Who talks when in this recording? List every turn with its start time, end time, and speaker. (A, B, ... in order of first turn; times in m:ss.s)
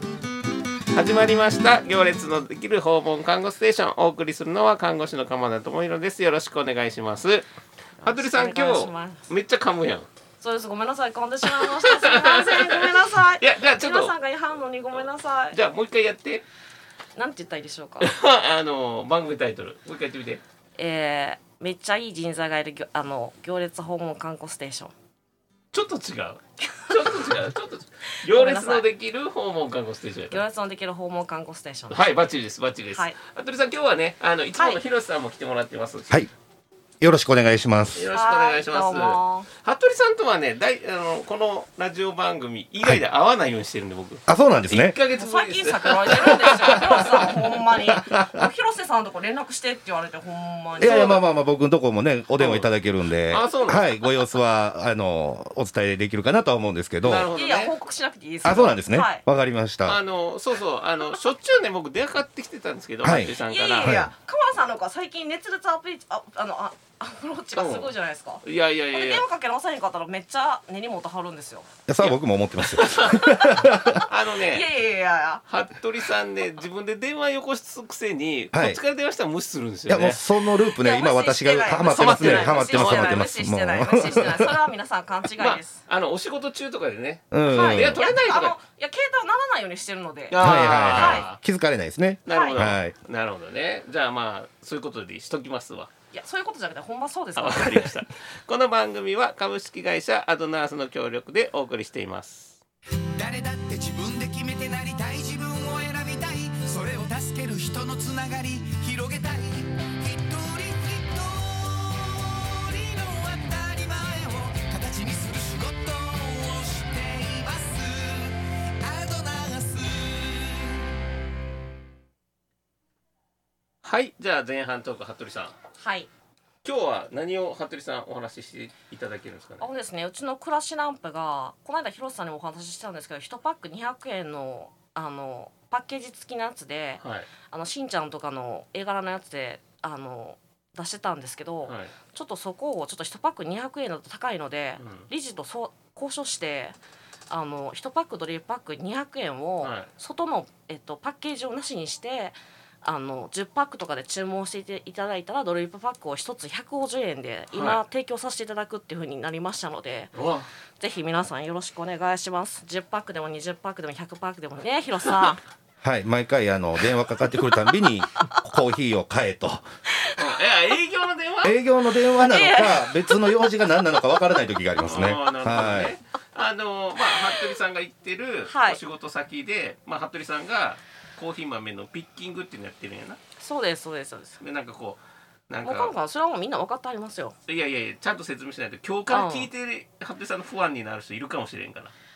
0:00.9-0:07.5 A
0:08.0-0:09.3 B
0:08.0-0:10.1 A
0:10.4-0:15.6 B
0:11.4-0:14.2 A
0:14.9-0:16.4 A
0:17.2-0:18.1 B
0:18.0-0:20.4 A
0:20.8-0:24.9 B
0:25.7-0:30.4 A
0:26.9-0:27.3 B
0:28.2-0:28.9 B
0:30.3-0:32.1 B
0:31.9-0:36.2 A
0:37.0-0:38.0 C
0:38.0-0:47.5 A
0:38.1-0:39.5 B
0:44.3-0:45.0 C
0:45.1-0:51.2 B
0:47.8-0:48.5 C
0:50.8-0:57.3 C
0:50.8-0:51.2 A
0:52.4-0:52.7 A
0:53.3-0:53.9 A
0:57.0-0:57.8 A
0:57.3-0:59.2 B
0:58.4-1:00.0 C
0:59.9-1:03.9 A
1:03.0-1:04.1 C
1:03.5-1:11.7 B
1:07.6-1:07.9 A
1:08.4-1:09.2 A
1:11.9-1:14.0 C
1:12.0-1:14.7 A
1:14.5-1:15.4 B
1:15.5-1:20.2 A
1:18.5-1:18.8 C
1:19.9-1:24.6 C
1:20.7-1:25.8 B
1:21.8-1:23.3 A
1:25.4-1:28.6 A
1:27.3-1:28.0 C
1:27.5-1:31.3 B
1:30.3-1:31.4 A
1:30.4-1:33.0 C
1:32.3-1:35.9 A
1:32.3-1:32.6 B
1:36.1-1:37.9 B
1:37.4-1:42.6 A
1:43.1-2:00.8 D
2:03.8-2:05.6 A
2:05.8-2:06.1 B
2:06.6-2:09.7 A
2:09.6-2:26.8 B
2:17.0-2:17.3 A
2:21.7-2:21.9 A
2:24.8-2:25.1 A
2:27.3-2:40.1 B
2:29.6-2:29.9 A
2:37.5-2:37.8 A
2:40.2-2:40.5 A
2:40.8-2:45.4 B
2:45.8-2:49.7 C
2:50.2-2:51.6 A
2:51.4-2:56.0 C
2:52.3-2:53.4 B
2:54.8-3:03.2 A
2:58.5-2:58.8 B
3:03.4-3:04.4 B
3:04.4-3:06.0 A
3:05.6-3:07.4 B
3:07.5-3:11.9 A
3:09.1-3:09.5 B